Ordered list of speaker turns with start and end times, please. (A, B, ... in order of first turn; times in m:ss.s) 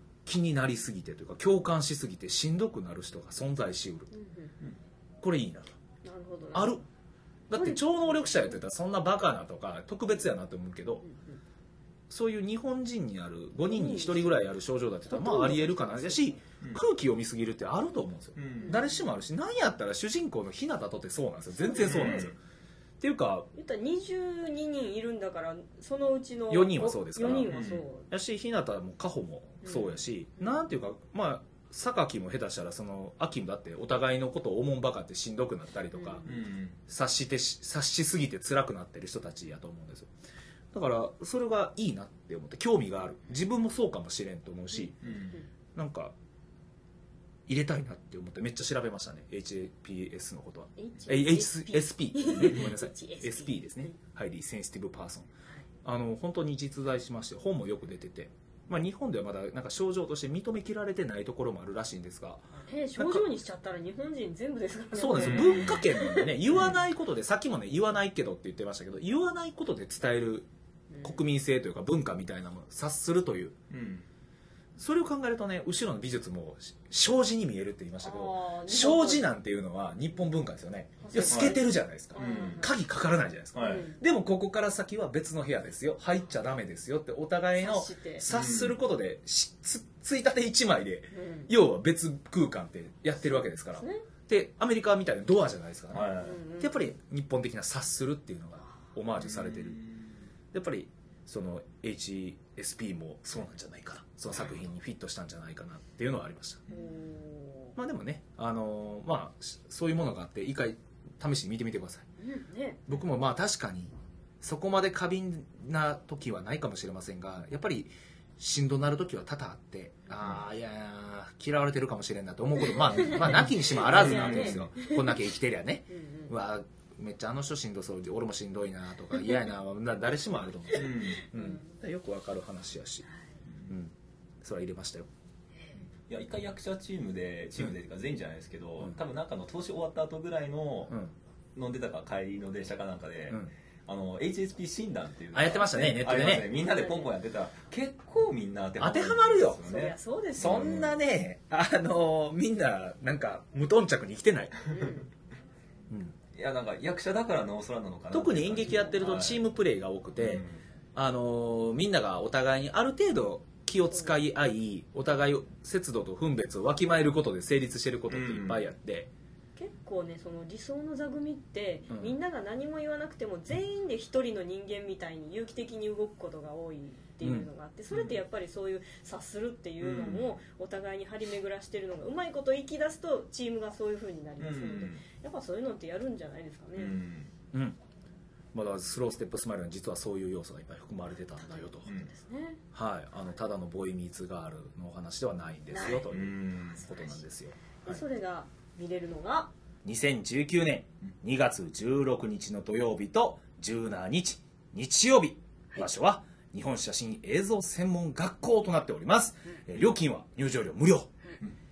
0:00.2-0:04.1 A
0:04.1-0:04.5 B
0:05.2-0:05.7 A
0:06.0-0:06.8 B
0:06.5-0:06.8 A
0:07.5-0:11.0 A
0:07.5-0:08.4 B
0:11.0-0:11.4 B
0:12.1-0:22.4 A
0:13.7-0:14.3 B
0:15.1-0:16.2 B
0:18.4-0:18.8 C
0:18.6-0:19.0 B
0:21.6-0:22.3 B
0:21.8-0:22.3 C
0:23.0-0:23.5 A
0:23.5-0:28.1 B
0:26.5-0:36.2 A
0:27.5-0:27.8 C
0:29.6-0:30.6 B
0:35.9-0:36.3 B
0:36.2-0:36.8 C
0:36.9-0:40.1 A
0:40.7-0:45.0 A
0:45.0-0:45.4 C
0:45.7-0:46.1 A
0:47.5-0:55.3 A
0:50.8-0:53.9 B
0:55.8-1:03.3 A
1:02.6-1:06.3 B
1:04.9-1:10.5 A
1:05.2-1:05.8 C
1:06.5-1:06.8 C
1:10.9-1:11.2 B
1:11.0-1:13.6 A
1:13.7-1:14.0 C
1:14.8-1:39.8 A
1:18.0-1:19.2 B
1:21.0-1:22.7 B
1:21.2-1:21.6 C
1:22.1-1:22.6 C
1:23.5-1:23.9 C
1:23.6-1:24.0 B
1:27.6-1:28.2 B
1:28.3-1:28.7 C
1:31.1-1:31.5 B
1:33.8-1:34.0 B
1:35.9-1:36.4 C
1:36.2-1:36.8 B
1:39.2-1:40.1 C
1:40.5-1:46.6 A
1:46.7-1:47.7 B
1:47.8-1:52.0 A
1:52.2-1:52.8 B
1:52.9-2:13.0 A
2:02.7-2:05.2 B
2:03.2-2:04.7 C
2:05.9-2:06.3 B
2:10.7-2:11.3 C
2:11.3-2:11.7 B
2:13.7-2:15.1 A
2:15.6-2:15.8 B
2:16.1-2:20.9 C
2:21.5-2:31.0 C
2:25.3-2:26.5 A
2:26.5-2:27.1 B
2:28.8-2:29.7 A
2:29.6-2:30.8 B
2:30.4-2:34.6 A
2:34.6-2:34.9 C
2:34.7-2:35.1 B
2:35.9-2:36.1 A
2:36.3-2:39.4 C
2:38.1-2:49.1 A
2:40.2-2:40.5 C
2:48.1-2:48.6 C
2:49.6-3:07.0 B
2:51.9-2:52.1 A
2:57.2-2:57.5 A
2:57.9-2:58.2 C
2:59.8-3:00.4 C
3:04.4-3:05.0 C
3:06.8-3:07.3 C
3:08.5-3:11.9 A
3:11.4-3:12.6 B
3:12.7-3:18.0 A
3:15.7-3:16.1 B
3:16.1-3:16.9 C
3:16.7-3:17.2 B
3:17.8-3:19.5 B
3:19.8-3:31.1 A